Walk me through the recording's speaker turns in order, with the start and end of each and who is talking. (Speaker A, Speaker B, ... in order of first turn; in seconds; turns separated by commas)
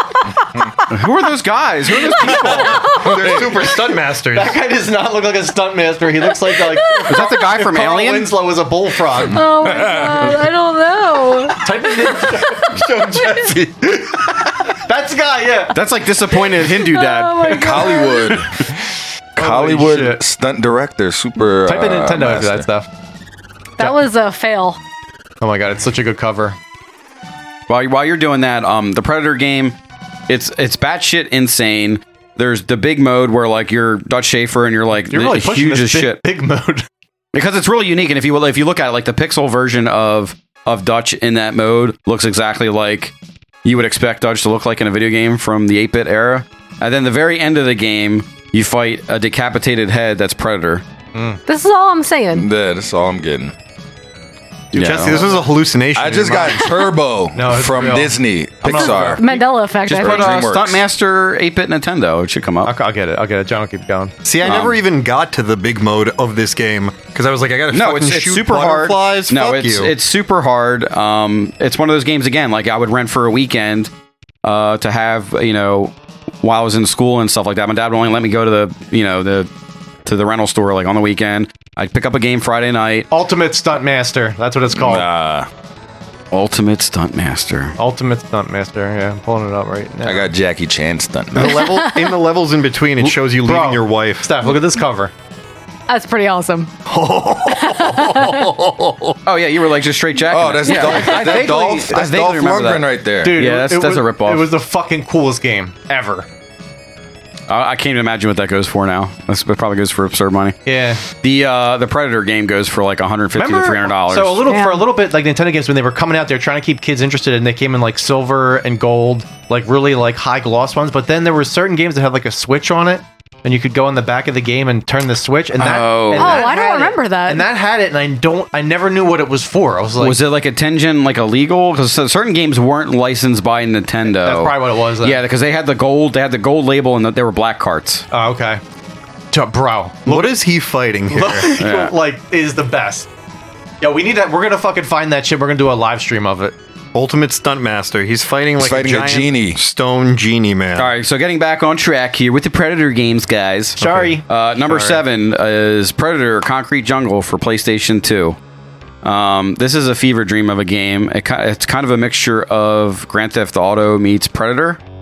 Speaker A: 0.9-2.8, Speaker B: 2.1-3.1, Speaker C: 2.5-2.8, Speaker D: 3.0-4.5, Speaker E: 3.0-3.5, Speaker C: 4.3-9.4, Speaker B: 6.5-7.3, Speaker A: 7.1-8.3, Speaker B: 9.3-12.3, Speaker E: 9.7-10.1, Speaker C: 11.6-14.2, Speaker B: 13.2-13.5, Speaker D: 13.5-14.0, Speaker C: 14.9-15.8, Speaker A: 15.7-17.6, Speaker B: 16.6-18.4, Speaker E: 17.5-18.7, Speaker E: 19.4-22.7, Speaker C: 19.4-20.2, Speaker C: 21.6-22.9, Speaker B: 23.8-24.8, Speaker C: 25.4-26.6, Speaker A: 27.7-29.8, Speaker A: 30.3-36.2, Speaker C: 35.1-36.9, Speaker A: 37.3-43.1, Speaker A: 43.6-50.8, Speaker C: 51.1-51.4, Speaker B: 51.5-52.5, Speaker E: 52.3-53.5, Speaker A: 54.7-55.2, Speaker D: 54.7-56.8, Speaker E: 56.0-60.8, Speaker C: 57.3-59.2, Speaker B: 58.8-60.4, Speaker A: 59.9-62.7, Speaker C: 62.6-64.1, Speaker D: 64.2-69.9, Speaker A: 64.4-64.8, Speaker A: 67.7-73.9, Speaker A: 74.4-79.5, Speaker A: 80.0-83.1, Speaker C: 83.1-85.1, Speaker E: 84.7-85.5, Speaker A: 86.3-87.8, Speaker C: 87.8-90.3, Speaker E: 90.0-91.5, Speaker D: 91.3-94.5, Speaker B: 91.4-92.2, Speaker C: 93.0-95.1, Speaker B: 95.9-96.7, Speaker D: 96.9-99.2, Speaker B: 97.5-98.5, Speaker A: 99.3-104.5, Speaker E: 100.3-103.4, Speaker C: 101.2-102.2, Speaker C: 103.2-106.3, Speaker A: 107.5-110.6, Speaker C: 110.7-111.0, Speaker A: 111.2-114.4, Speaker C: 113.3-130.2, Speaker B: 114.5-114.9, Speaker A: 125.6-126.4, Speaker B: 126.2-127.5, Speaker A: 130.0-138.1, Speaker C: 134.1-135.2, Speaker C: 138.1-138.6, Speaker C: 139.3-140.3, Speaker D: 140.1-141.6, Speaker C: 141.1-143.1, Speaker A: 141.6-141.9, Speaker C: 143.8-146.5, Speaker D: 146.9-150.9, Speaker E: 148.6-149.6, Speaker A: 150.8-158.4, Speaker D: 153.8-154.2, Speaker C: 153.8-154.2, Speaker D: 154.7-155.0, Speaker A: 159.0-164.8